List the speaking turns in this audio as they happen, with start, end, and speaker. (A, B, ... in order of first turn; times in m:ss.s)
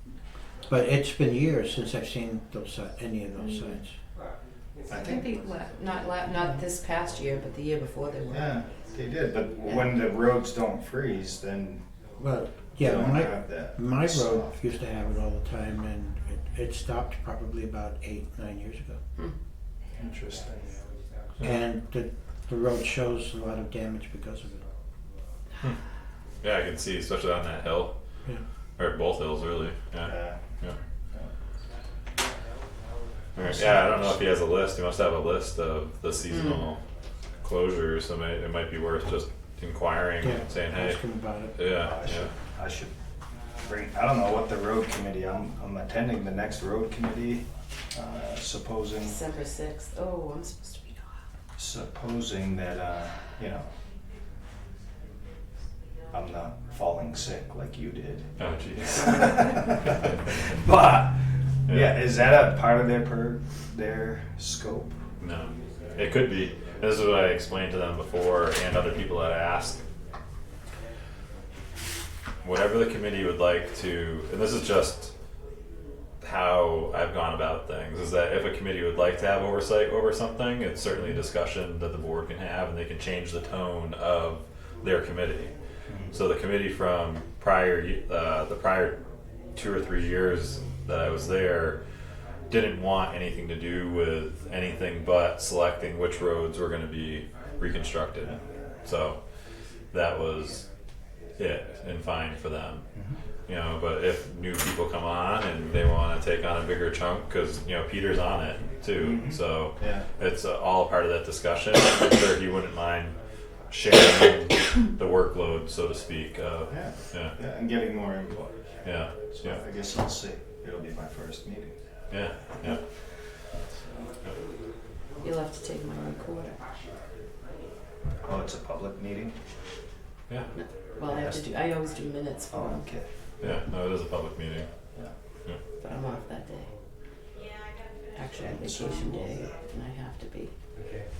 0:00.7-0:03.9 A
0:03.4-0:03.8 B
0:04.9-0:05.2 C
0:05.0-0:08.6 B
0:08.3-0:11.8 C
0:12.2-0:19.0 A
0:12.8-0:14.6 C
0:20.0-0:20.7 C
0:21.4-0:24.6 A
0:26.4-0:27.9 D
0:28.8-0:30.7 D
0:30.0-0:30.4 C
0:33.4-0:36.8 D
0:37.4-0:41.0 D
0:40.2-0:41.6 A
0:41.5-0:42.3 D
0:41.8-0:42.9 C
0:43.6-0:49.2 C
0:49.0-0:51.2 B
0:51.6-0:53.7 C
0:56.1-0:58.2 C
0:58.4-1:00.1 D
0:59.0-0:59.5 B
0:59.0-1:01.1 C
1:01.7-1:02.0 D
1:01.7-1:04.9 C
1:05.2-1:09.8 D
1:12.4-1:15.1 D
1:16.2-1:25.5 D
1:26.1-1:29.0 D
1:29.5-1:31.8 D
1:32.5-1:39.2 D
1:39.9-1:40.6 D
1:41.4-1:42.8 D
1:43.5-1:53.1 D
1:49.0-1:50.0 C
1:53.7-1:57.3 D
1:56.7-1:58.5 C
1:58.8-1:59.6 D
1:59.3-2:01.7 C
2:02.1-2:02.8 D
2:05.2-2:06.6 B
2:08.2-2:09.3 C
2:10.5-2:12.8 B
2:11.1-2:11.4 C
2:12.5-2:13.0 C
2:13.4-2:14.7 D
2:15.8-2:16.7 B
2:18.1-2:20.5 B
2:18.4-2:19.5 C